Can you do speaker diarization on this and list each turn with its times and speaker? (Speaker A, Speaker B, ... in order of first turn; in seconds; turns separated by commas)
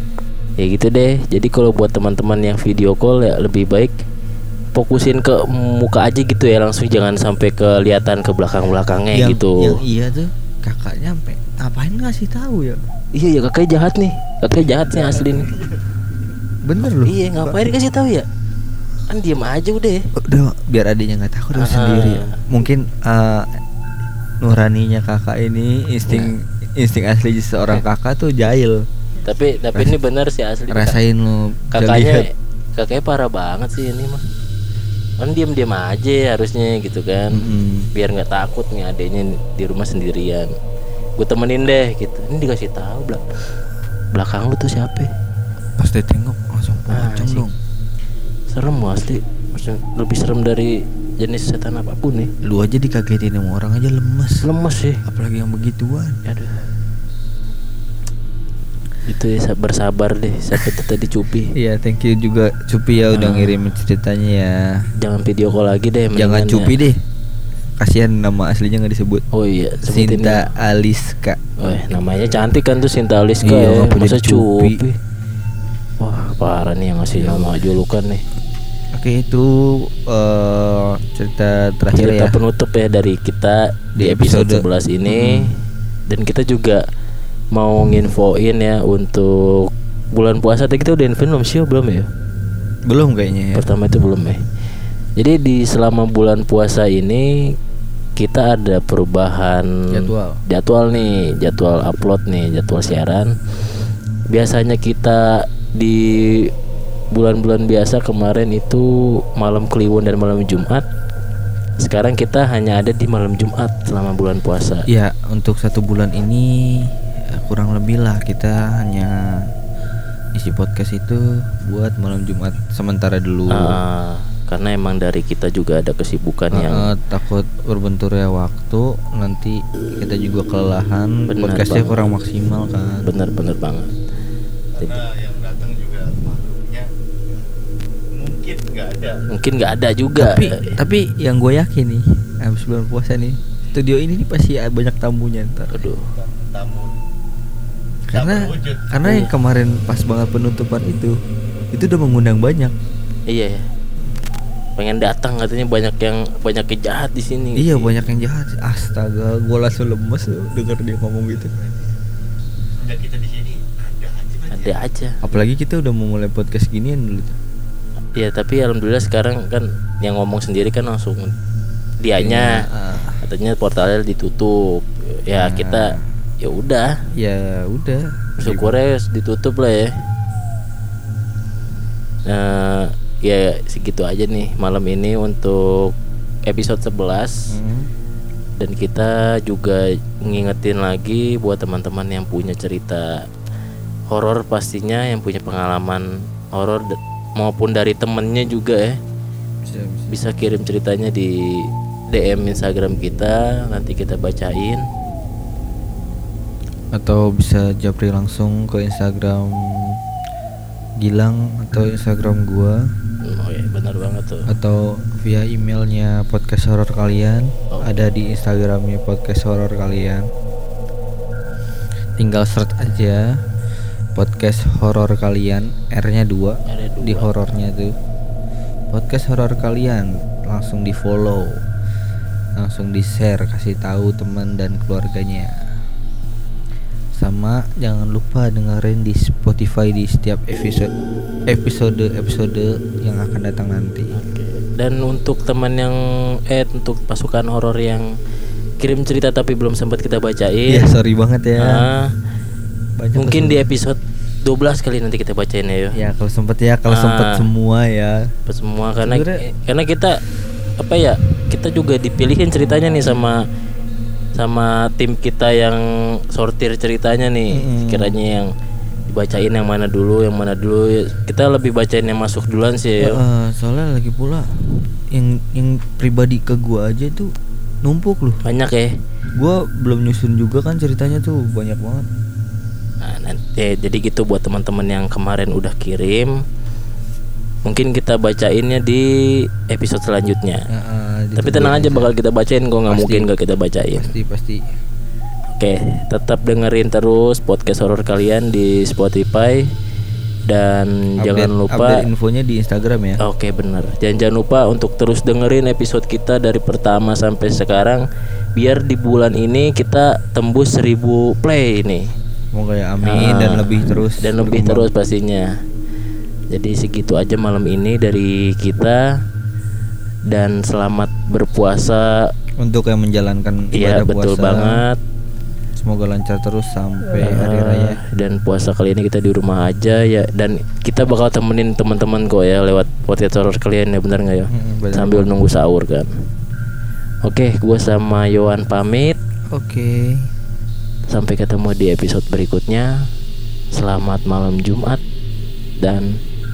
Speaker A: 0.6-3.9, Speaker A: 4.7-9.8, Speaker B: 9.1-12.8, Speaker A: 13.1-15.5, Speaker C: 14.9-15.8, Speaker B: 16.6-17.6, Speaker A: 16.8-18.2, Speaker A: 19.1-20.1, Speaker B: 20.1-23.6, Speaker A: 21.6-22.4, Speaker B: 24.4-28.8, Speaker A: 26.1-26.3, Speaker A: 29.2-30.9, Speaker B: 30.7-32.2, Speaker A: 31.7-34.2, Speaker A: 35.2-40.5, Speaker B: 37.3-37.9, Speaker A: 41.2-43.2, Speaker A: 44.1-45.1, Speaker B: 45.8-47.5, Speaker A: 46.9-47.4, Speaker A: 48.5-52.3, Speaker B: 52.4-54.5, Speaker A: 54.4-55.0, Speaker B: 55.0-56.2, Speaker A: 56.2-56.6, Speaker A: 59.0-61.5, Speaker B: 61.5-64.8, Speaker A: 63.1-63.5, Speaker A: 65.0-66.8, Speaker B: 66.1-67.0, Speaker B: 67.8-69.2, Speaker A: 69.3-70.5, Speaker B: 69.8-71.8, Speaker A: 71.6-75.0, Speaker B: 73.4-74.8, Speaker A: 76.0-78.2, Speaker B: 77.2-77.6, Speaker B: 78.9-82.4, Speaker A: 81.9-86.8, Speaker B: 84.0-85.5, Speaker A: 87.5-92.1, Speaker B: 92.9-93.7, Speaker A: 93.5-94.4, Speaker A: 95.2-97.3, Speaker A: 98.2-103.3, Speaker B: 99.9-100.4, Speaker A: 104.3-106.5, Speaker A: 107.1-110.8, Speaker A: 111.8-114.9, Speaker B: 114.9-119.5, Speaker B: 120.3-123.8, Speaker A: 123.5-126.9, Speaker B: 126.5-133.1, Speaker A: 131.3-132.1, Speaker A: 133.0-133.9, Speaker C: 134.7-137.4, Speaker C: 138.1-139.2, Speaker A: 139.3-140.7, Speaker B: 140.2-145.9, Speaker A: 145.7-146.1, Speaker C: 146.1-147.0, Speaker B: 148.1-151.2, Speaker C: 148.1-148.9, Speaker A: 149.0-149.3, Speaker B: 151.7-152.7, Speaker A: 153.3-153.7, Speaker A: 154.8-157.9, Speaker B: 157.6-161.5, Speaker C: 161.4-161.9, Speaker C: 162.7-164.8, Speaker A: 164.5-165.2, Speaker B: 165.2-167.4, Speaker A: 168.1-171.3, Speaker A: 172.0-172.6, Speaker B: 172.2-173.2, Speaker A: 173.2-176.9, Speaker B: 175.3-176.0, Speaker B: 177.2-178.8, Speaker A: 178.4-179.9, Speaker A: 182.2-185.9, Speaker A: 186.5-187.4, Speaker B: 187.5-187.9, Speaker A: 188.6-193.2, Speaker A: 194.1-199.0, Speaker B: 199.7-200.1, Speaker A: 200.1-204.8, Speaker B: 206.9-210.0, Speaker B: 211.0-212.8, Speaker A: 213.2-214.5, Speaker B: 214.5-220.3, Speaker A: 217.7-218.0, Speaker B: 222.2-223.4, Speaker B: 224.1-227.9, Speaker A: 226.7-227.3, Speaker B: 228.9-231.6, Speaker B: 232.6-235.6, Speaker B: 237.1-240.9, Speaker B: 241.5-244.2, Speaker A: 244.1-246.0, Speaker A: 246.5-248.1, Speaker A: 248.8-250.9, Speaker B: 250.7-251.8, Speaker A: 251.6-252.1, Speaker B: 253.0-253.7, Speaker A: 253.2-256.0, Speaker B: 255.9-258.2, Speaker A: 256.9-257.4, Speaker A: 258.5-260.2, Speaker B: 259.0-259.4, Speaker A: 260.8-263.4, Speaker A: 264.4-268.5, Speaker B: 267.5-268.2, Speaker A: 269.1-273.2, Speaker B: 273.0-277.3, Speaker B: 277.8-278.4, Speaker A: 278.4-278.9, Speaker B: 279.3-282.1, Speaker A: 283.0-286.4, Speaker A: 287.6-290.7, Speaker B: 290.7-292.1, Speaker A: 291.4-294.1, Speaker B: 292.9-293.3, Speaker B: 293.9-294.6, Speaker A: 295.6-299.7, Speaker A: 300.5-302.0, Speaker B: 301.2-303.2, Speaker A: 303.2-308.0, Speaker A: 308.6-312.1, Speaker B: 312.5-314.9, Speaker A: 313.0-315.5, Speaker A: 316.5-319.0, Speaker A: 320.3-322.2, Speaker B: 322.6-324.8, Speaker A: 323.7-325.0, Speaker B: 325.8-328.0, Speaker A: 327.0-336.1, Speaker B: 334.5-335.4, Speaker A: 337.2-339.2, Speaker B: 339.5-340.3, Speaker A: 341.1-342.9, Speaker A: 343.7-345.0, Speaker A: 345.8-346.2